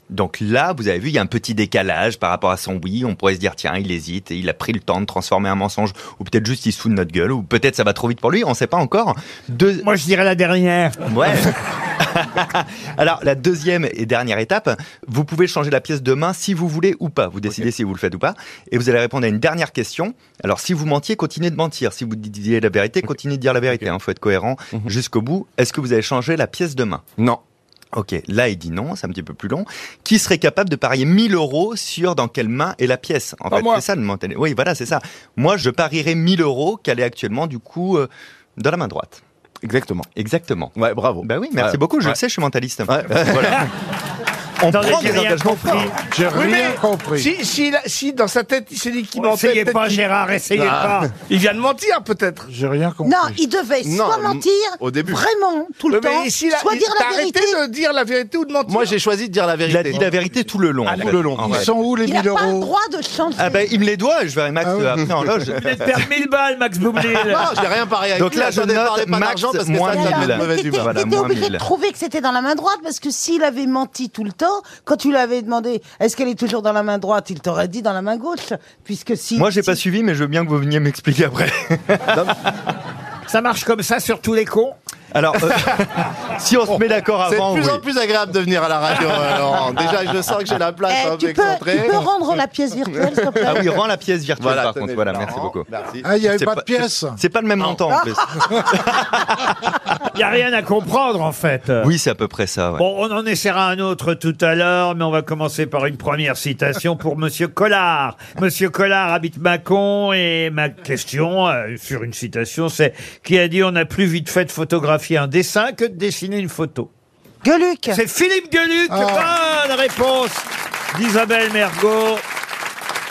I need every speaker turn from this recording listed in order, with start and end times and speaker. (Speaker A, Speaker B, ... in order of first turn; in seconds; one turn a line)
Speaker A: 0.1-9.8
Speaker B: 9.8-11.0
Speaker A: 11.1-27.0
Speaker A: 27.9-39.2
Speaker C: 33.5-33.8
Speaker D: 39.6-40.1
Speaker A: 40.1-43.7
Speaker D: 40.8-42.2
Speaker D: 42.9-43.7
Speaker A: 44.6-45.9
Speaker B: 44.7-46.0
Speaker D: 44.8-45.9
Speaker E: 46.1-47.3
Speaker C: 46.2-50.0
Speaker B: 49.2-51.1
Speaker D: 50.5-51.1
Speaker C: 51.3-52.5
Speaker E: 52.5-53.3
Speaker F: 53.0-57.6
Speaker D: 53.8-55.2
Speaker C: 55.9-59.0
Speaker D: 58.7-60.3
Speaker A: 59.7-61.7
Speaker D: 60.8-61.7
Speaker E: 61.4-62.7
Speaker F: 62.0-63.7
Speaker A: 63.4-65.7
Speaker E: 64.6-65.0
Speaker B: 65.5-67.5
Speaker D: 67.2-71.1
Speaker A: 68.2-71.7
Speaker F: 69.9-79.8
Speaker A: 79.4-82.2
Speaker D: 82.1-82.4
Speaker B: 83.3-84.8
Speaker A: 85.1-87.8
Speaker D: 87.2-92.1
Speaker F: 90.9-93.7
Speaker D: 93.1-93.8
Speaker A: 93.5-95.7
Speaker D: 94.4-96.2
Speaker E: 96.0-97.2
Speaker A: 96.3-99.8
Speaker F: 97.9-98.5
Speaker B: 100.1-101.9
Speaker A: 101.8-102.8
Speaker B: 102.8-116.9
Speaker F: 117.4-118.0
Speaker B: 117.9-122.2
Speaker E: 118.9-119.3